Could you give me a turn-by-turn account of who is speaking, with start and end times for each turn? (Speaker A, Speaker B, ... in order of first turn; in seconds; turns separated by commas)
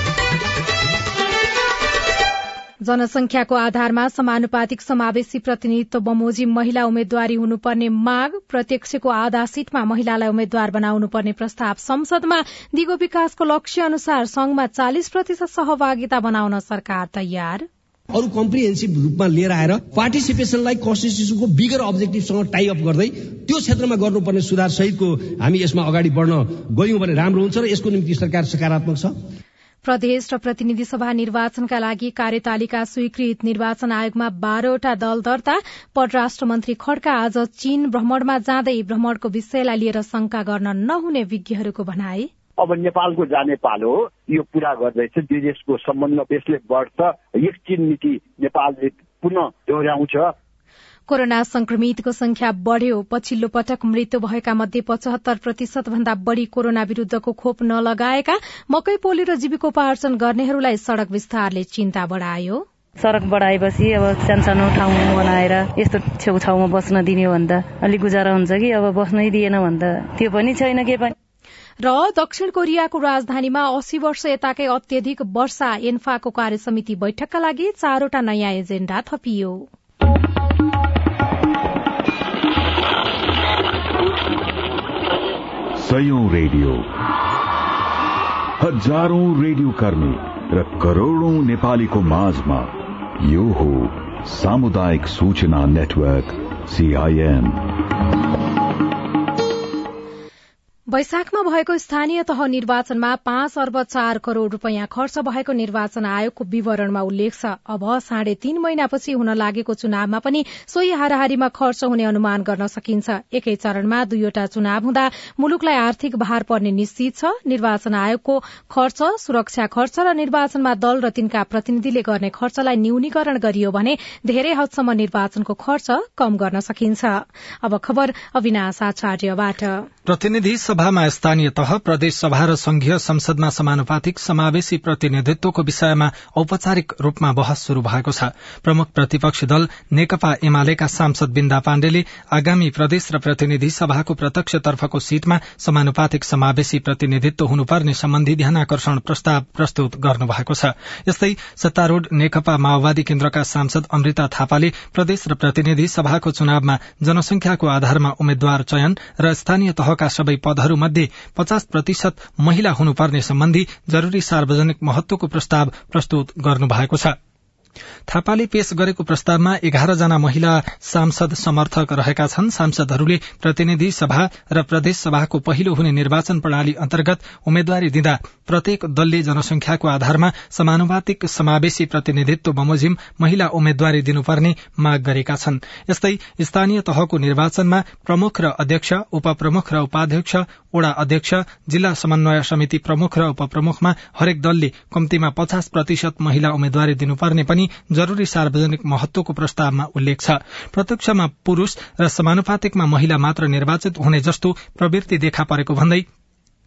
Speaker A: 2.8-17.7, Speaker B: 18.1-29.1, Speaker A: 29.8-42.3, Speaker C: 42.6-50.3, Speaker A: 51.1-62.6, Speaker D: 63.0-71.1, Speaker A: 71.8-79.7, Speaker E: 85.8-86.9, Speaker E: 88.6-97.7, Speaker A: 100.9-129.9, Speaker F: 130.1-167.2, Speaker F: 168.1-206.1